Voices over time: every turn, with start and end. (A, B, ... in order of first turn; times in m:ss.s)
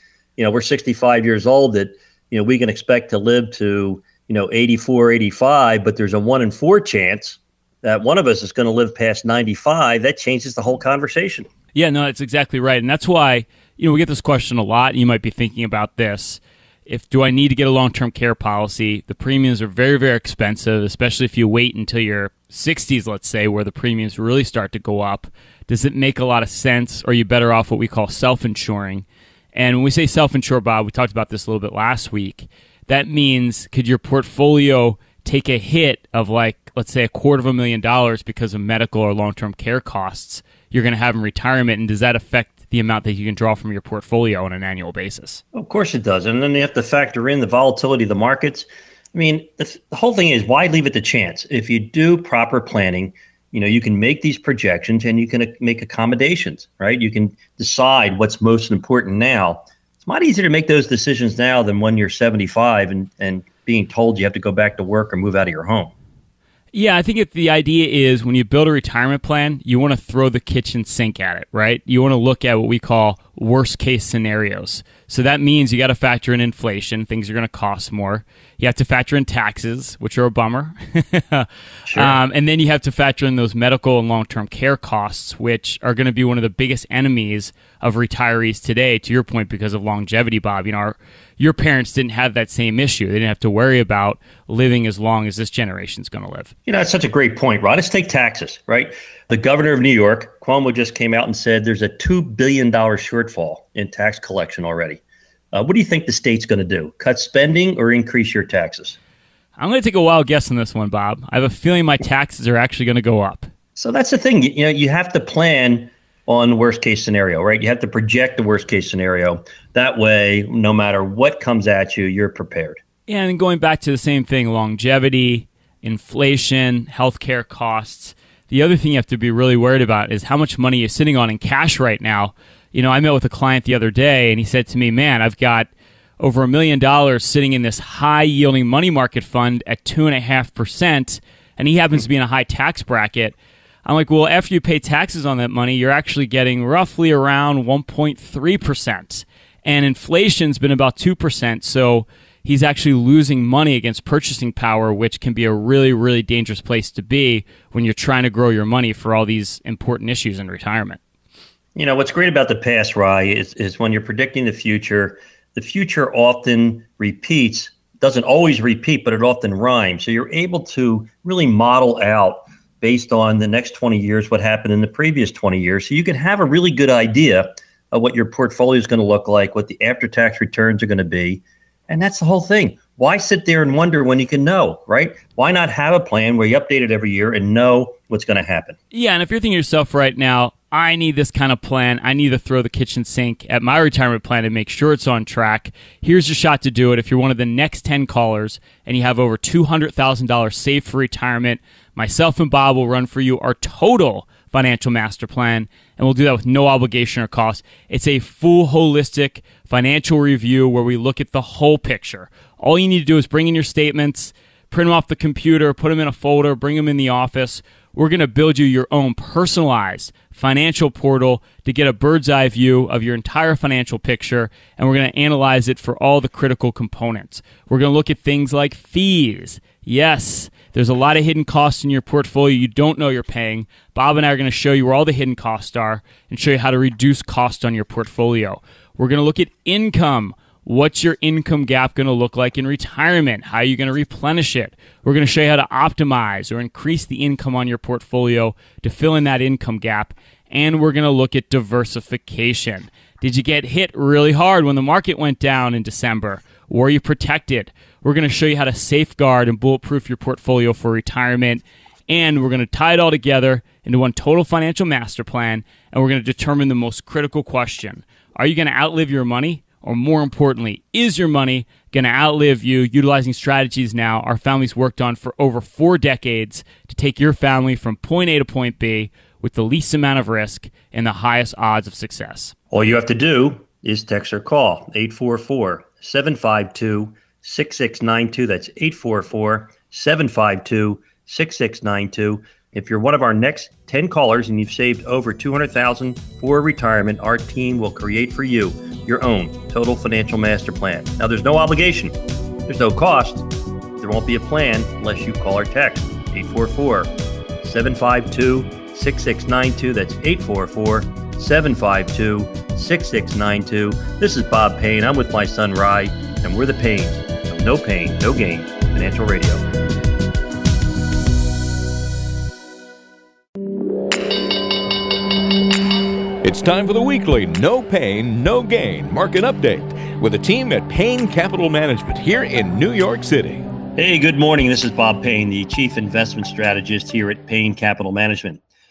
0:00.4-0:11.5 A
0:11.7-0:45.4 B
0:45.5-1:05.9 A
1:06.7-1:36.5 B
1:21.9-1:22.2 A
1:36.7-1:45.0 A
1:45.5-1:49.0 A
1:49.6-1:53.5 B
1:53.8-2:02.8 A
2:03.1-2:41.0 B
2:41.8-3:08.8 A
3:08.9-4:42.5 B
4:42.7-5:02.1 A
5:02.7-5:19.6 A
5:26.4-5:33.7 C
5:34.0-5:38.6 A